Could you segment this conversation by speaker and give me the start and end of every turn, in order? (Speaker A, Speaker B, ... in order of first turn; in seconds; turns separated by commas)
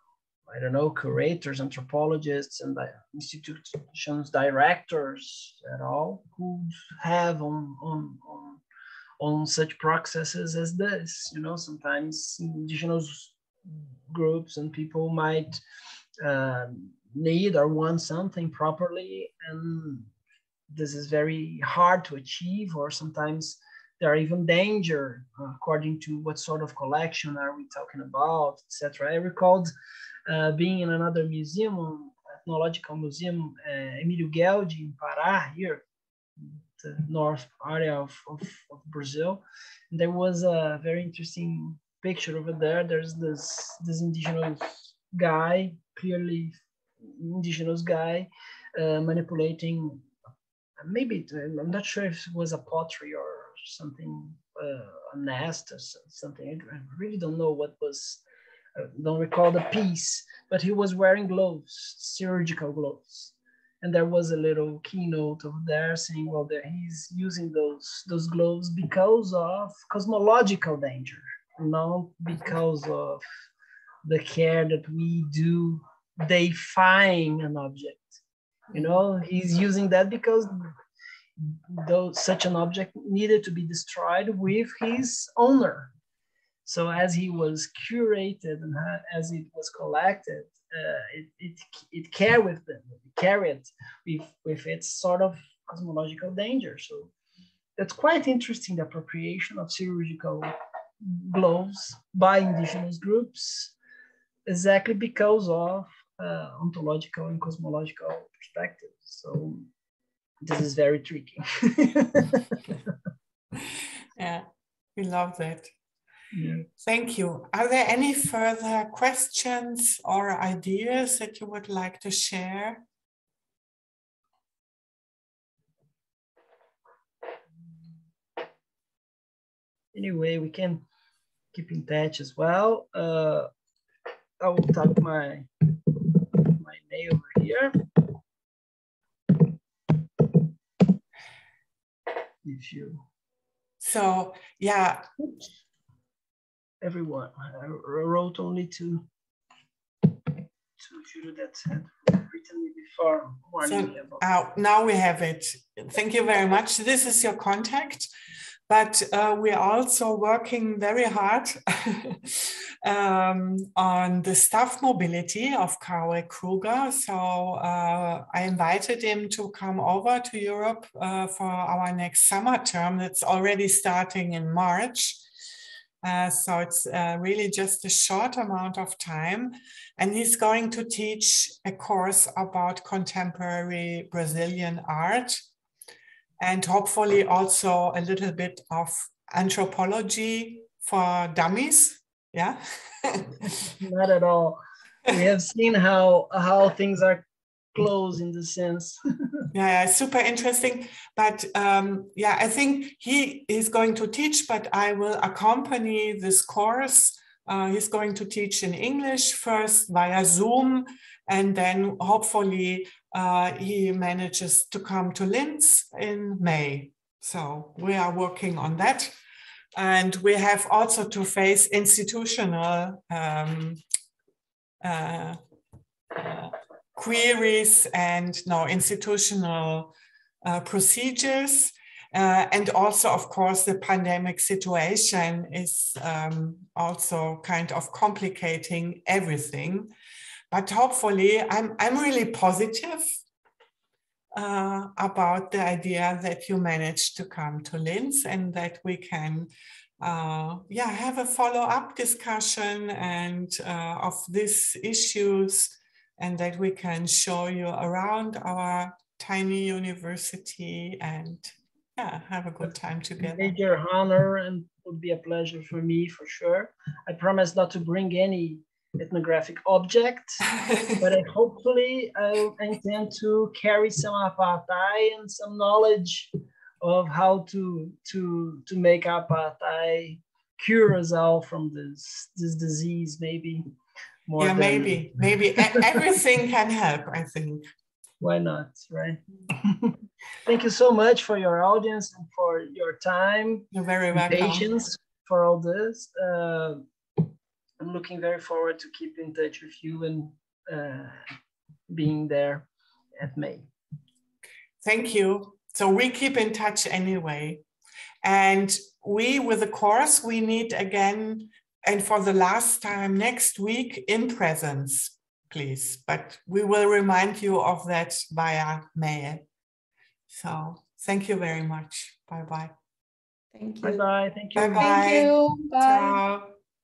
Speaker A: 0.5-8.6, Speaker A: 9.2-15.6, Speaker A: 16.2-20.1, Speaker A: 20.7-29.7, Speaker A: 30.3-35.8, Speaker A: 36.4-50.0, Speaker A: 50.8-58.2, Speaker A: 58.8-73.2, Speaker A: 74.0-78.2, Speaker A: 78.7-80.7, Speaker A: 81.4-85.9, Speaker A: 86.7-97.1, Speaker A: 97.8-100.5, Speaker A: 101.0-103.7, Speaker A: 104.5-109.7, Speaker A: 110.4-112.6, Speaker B: 113.7-115.7, Speaker A: 116.3-116.6, Speaker B: 116.8-122.8, Speaker A: 129.9-130.8, Speaker A: 131.5-133.5, Speaker A: 134.4-137.8, Speaker A: 142.4-143.0, Speaker B: 143.8-145.1, Speaker A: 146.8-149.0, Speaker A: 150.0-154.2, Speaker B: 153.6-158.1, Speaker B: 158.7-175.2, Speaker B: 176.0-185.4, Speaker B: 186.4-193.5, Speaker A: 193.4-197.2, Speaker A: 197.7-199.4, Speaker B: 199.5-219.1, Speaker B: 219.7-223.8, Speaker B: 224.8-225.4, Speaker B: 226.1-229.9, Speaker B: 230.4-239.9, Speaker B: 240.5-243.0, Speaker B: 244.3-263.5, Speaker A: 263.2-270.5, Speaker A: 271.0-276.3, Speaker A: 276.8-283.6, Speaker A: 284.3-285.8, Speaker B: 284.4-287.6, Speaker A: 288.2-297.3, Speaker B: 293.7-294.7, Speaker A: 297.8-301.2, Speaker A: 301.9-302.7, Speaker A: 303.2-303.7, Speaker B: 304.8-307.6, Speaker B: 308.2-319.4, Speaker B: 320.3-322.7, Speaker C: 323.5-324.0, Speaker A: 323.8-325.1, Speaker B: 324.6-326.5, Speaker C: 324.6-326.2